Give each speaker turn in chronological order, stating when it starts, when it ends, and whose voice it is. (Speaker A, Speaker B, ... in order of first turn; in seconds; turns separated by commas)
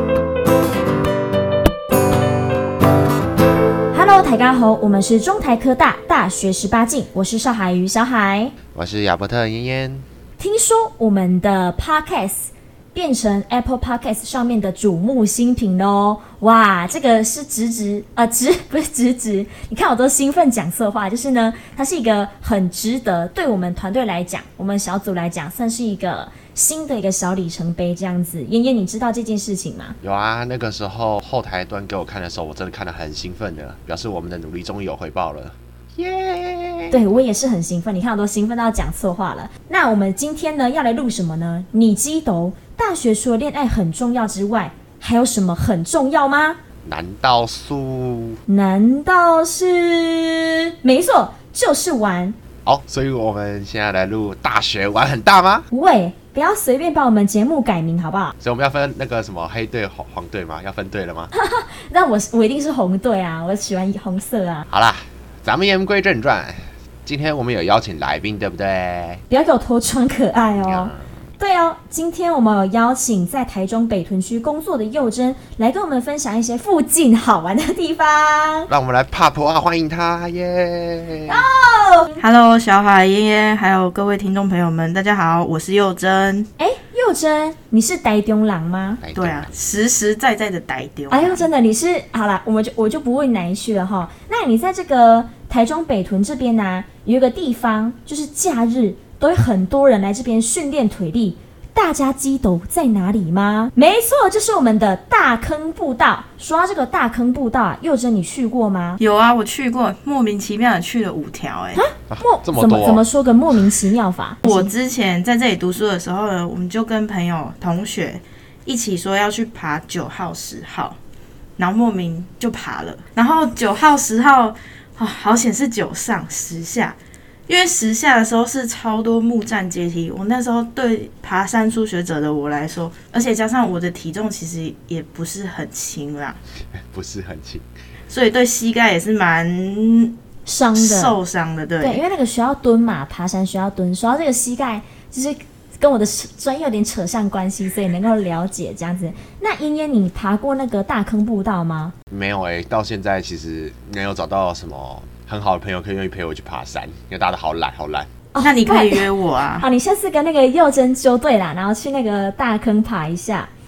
Speaker A: 3.9-8.5, Speaker B: 8.7-10.1, Speaker A: 10.4-30.0, Speaker B: 30.0-37.0, Speaker A: 36.9-46.6, Speaker B: 46.9-48.4, Speaker A: 48.5-52.4, Speaker B: 52.6-55.7, Speaker A: 55.7-58.3, Speaker B: 58.4-61.3, Speaker A: 61.3-64.7, Speaker B: 64.7-69.2, Speaker A: 69.3-78.7, Speaker B: 70.6-71.0, Speaker B: 78.7-81.4, Speaker A: 81.3-82.2, Speaker C: 82.2-86.5, Speaker A: 86.6-89.0, Speaker B: 89.0-89.5, Speaker C: 89.2-91.5, Speaker A: 91.1-109.0, Speaker C: 109.0-111.8, Speaker A: 111.8-114.7, Speaker B: 112.1-113.0, Speaker C: 114.5-121.0, Speaker C: 121.6-127.0, Speaker C: 127.5-136.4, Speaker B: 136.7-137.7, Speaker C: 138.1-140.2, Speaker A: 140.5-141.2, Speaker C: 140.8-142.0, Speaker A: 141.8-151.9, Speaker B: 152.1-158.1, Speaker A: 158.3-163.5, Speaker C: 158.4-159.7